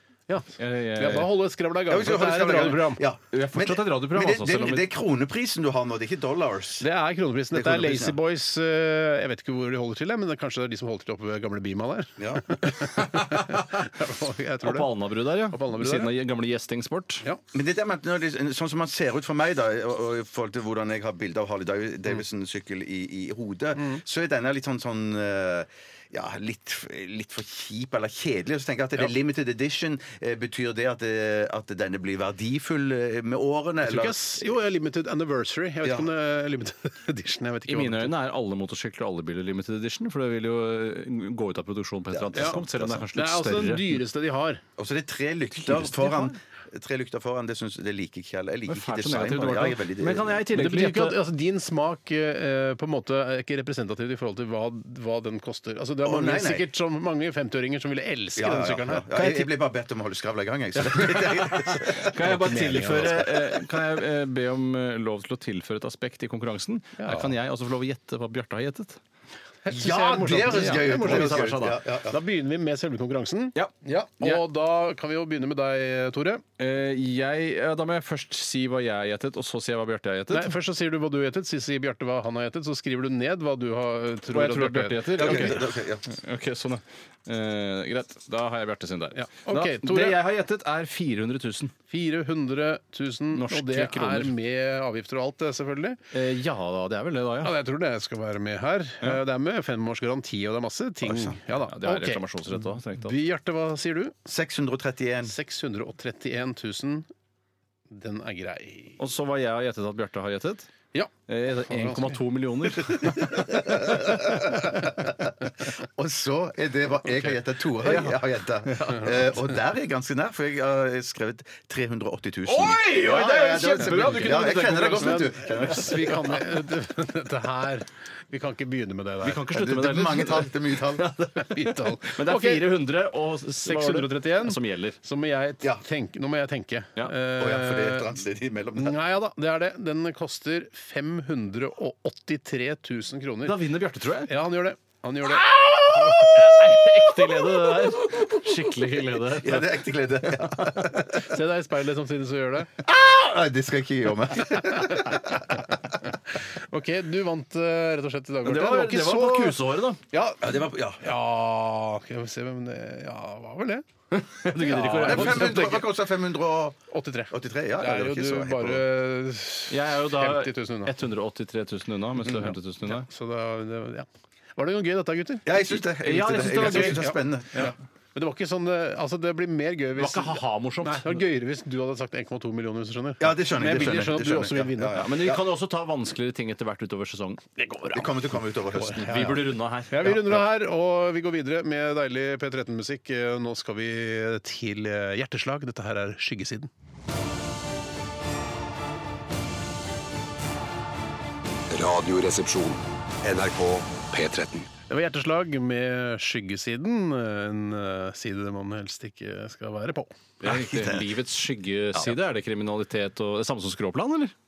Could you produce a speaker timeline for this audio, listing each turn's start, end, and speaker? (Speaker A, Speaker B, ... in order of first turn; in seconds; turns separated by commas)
Speaker A: 0.3-3.0, Speaker B: 0.6-1.3, Speaker C: 1.9-6.8, Speaker B: 3.3-4.9, Speaker A: 6.8-14.9, Speaker C: 7.5-8.2, Speaker C: 12.2-12.6, Speaker B: 13.0-13.6, Speaker B: 14.6-17.2, Speaker A: 15.5-16.1, Speaker C: 17.5-34.2, Speaker A: 33.8-38.1, Speaker C: 35.8-36.1, Speaker B: 37.7-44.0, Speaker C: 42.1-43.0, Speaker A: 43.1-44.6, Speaker C: 44.8-50.4, Speaker B: 45.7-46.3, Speaker B: 48.7-51.2, Speaker A: 50.5-59.4, Speaker C: 56.0-56.7, Speaker C: 58.4-62.3, Speaker A: 61.8-63.3, Speaker B: 62.0-69.0, Speaker A: 67.0-67.3, Speaker A: 69.6-76.4, Speaker C: 69.7-72.1, Speaker B: 70.3-71.8, Speaker B: 73.6-74.4, Speaker B: 76.6-80.5, Speaker A: 80.3-85.6, Speaker B: 84.3-91.7, Speaker C: 85.1-86.1, Speaker A: 89.1-90.2, Speaker A: 91.9-96.0, Speaker B: 93.3-94.3, Speaker B: 96.1-97.5, Speaker A: 97.4-104.1, Speaker C: 101.0-101.4, Speaker B: 101.7-103.2, Speaker C: 104.3-105.3, Speaker A: 105.2-107.1, Speaker A: 107.9-109.0, Speaker B: 109.0-110.7, Speaker B: 111.3-113.5, Speaker A: 111.7-112.2, Speaker C: 113.2-126.4, Speaker B: 117.9-118.1, Speaker B: 122.5-125.4, Speaker A: 124.0-124.3, Speaker A: 125.0-129.4, Speaker B: 129.2-135.0, Speaker C: 129.5-131.1, Speaker A: 131.4-132.7, Speaker A: 133.6-138.1, Speaker C: 137.4-139.0, Speaker A: 138.8-143.6, Speaker B: 143.4-144.3, Speaker A: 144.3-146.4, Speaker B: 145.4-149.9, Speaker C: 149.3-151.2, Speaker A: 151.1-152.7, Speaker C: 152.8-155.7, Speaker A: 154.9-155.2, Speaker A: 156.6-159.6, Speaker B: 158.4-160.0, Speaker A: 160.1-163.9, Speaker C: 160.4-161.1, Speaker B: 164.1-165.7, Speaker A: 164.4-165.8, Speaker C: 164.9-168.8, Speaker A: 166.9-170.9, Speaker B: 169.7-173.1, Speaker A: 172.9-175.4, Speaker C: 175.4-177.7, Speaker B: 176.0-177.1, Speaker A: 176.4-185.0, Speaker B: 180.0-181.2, Speaker C: 183.2-185.4, Speaker B: 184.9-187.4, Speaker A: 187.6-196.7, Speaker C: 187.9-189.4, Speaker B: 189.0-190.4, Speaker D: 201.7-204.7, Speaker A: 204.9-210.1, Speaker B: 210.4-214.3, Speaker C: 210.4-211.1